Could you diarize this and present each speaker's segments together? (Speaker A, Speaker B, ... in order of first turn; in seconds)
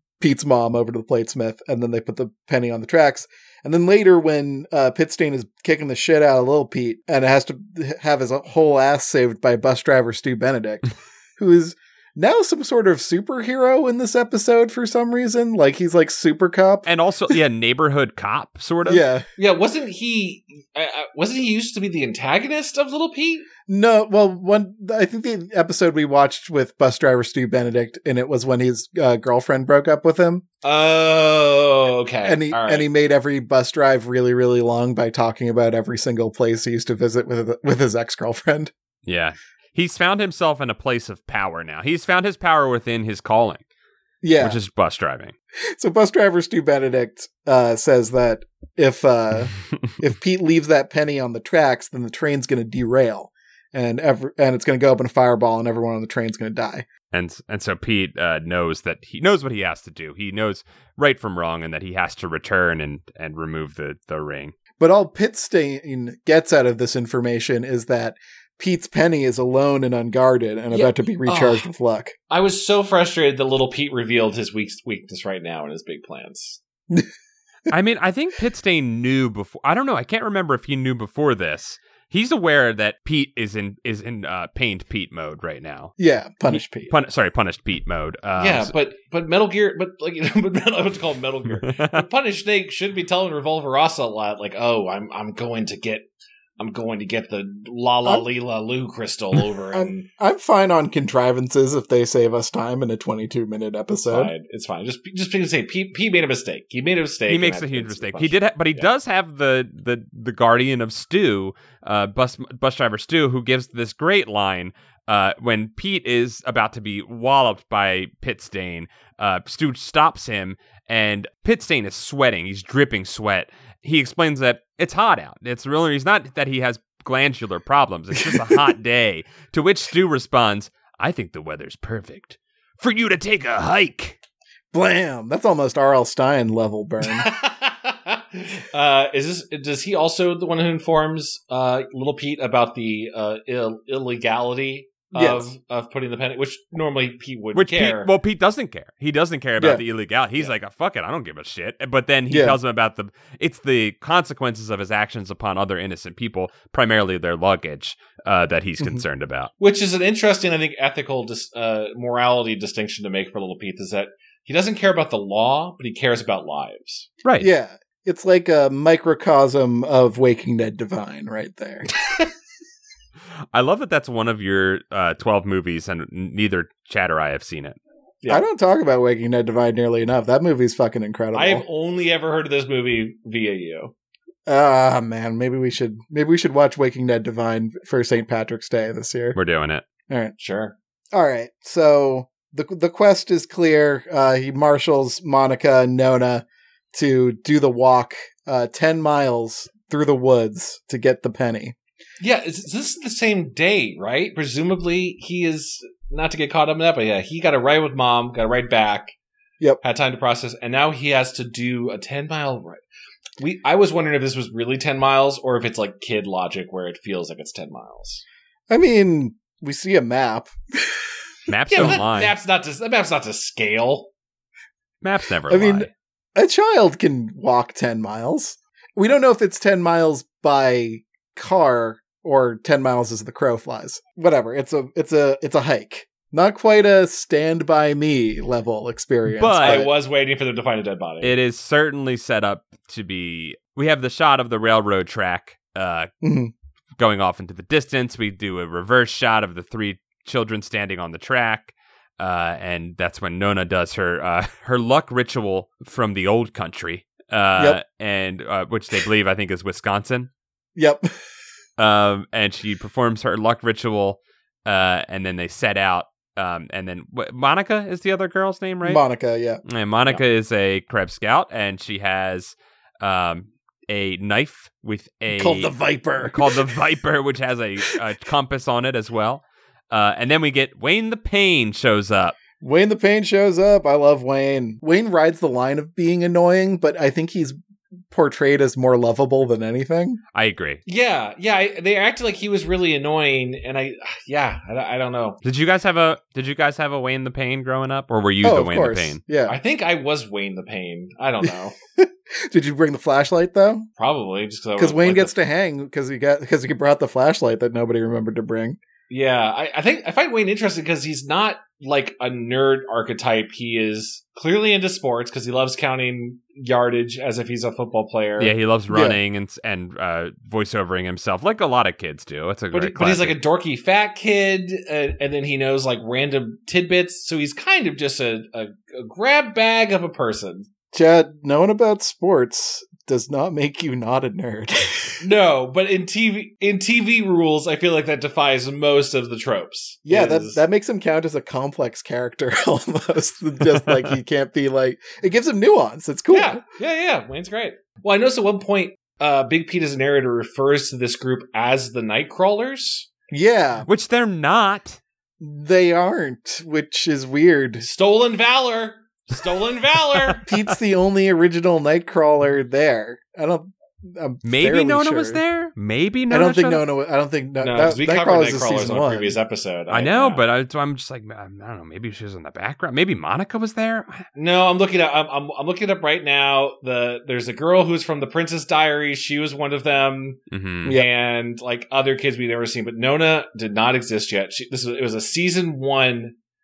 Speaker A: 0.2-17.3, 18.9-19.3, 23.7-30.4, 32.2-38.7, 44.2-44.6, 45.7-56.9, 64.8-72.2, 86.0-86.9, 99.7-104.3, 128.2-128.7, 134.7-137.3, 145.2-145.5, 152.3-152.6, 167.4-171.9, 178.3-181.7, 184.5-189.4, 190.1-190.3, 191.1-201.8, 218.7-221.0, 225.5-239.9, 246.2-246.5, 260.8-261.1, 268.8-269.6, 275.3-276.8, 282.6-287.6, 288.1-290.2, 298.4-299.6, 302.0-303.9, 304.8-308.8, 318.9-319.2, 330.9-335.2, 340.1-346.6, 353.3-353.9, 355.4-357.9, 360.5-365.4, 366.3-369.4, 380.9-381.1
Speaker B: 16.9-19.0, 39.0-43.6, 44.4-45.3, 57.1-64.5, 77.7-85.9, 86.5-88.7, 91.6-92.0, 107.3-134.2, 147.6-159.5, 167.2-167.5, 173.5-177.8, 189.3-189.8, 221.5-222.3, 225.0-225.9, 239.3-239.9, 241.2-246.1, 247.0-260.3, 261.8-269.0, 269.6-275.7, 276.2-282.4, 290.3-290.8, 295.4-299.2, 318.4-323.4, 353.9-355.0, 364.4-366.8, 369.9-374.3, 380.5-381.0
Speaker C: 19.4-23.5, 30.6-32.9, 70.7-71.7, 72.3-76.6, 88.4-100.1, 104.1-108.9, 137.1-148.1, 159.6-167.1, 181.3-183.9, 190.4-190.8, 202.2-209.2, 209.8-212.8, 213.4-218.2, 221.7-224.1, 239.6-241.4, 290.9-295.4, 299.5-301.8, 304.0-305.4, 309.1-318.5, 322.7-330.7, 335.2-340.6, 346.3-353.1, 357.8-360.5, 367.6-370.4, 374.4-380.4, 380.9-386.4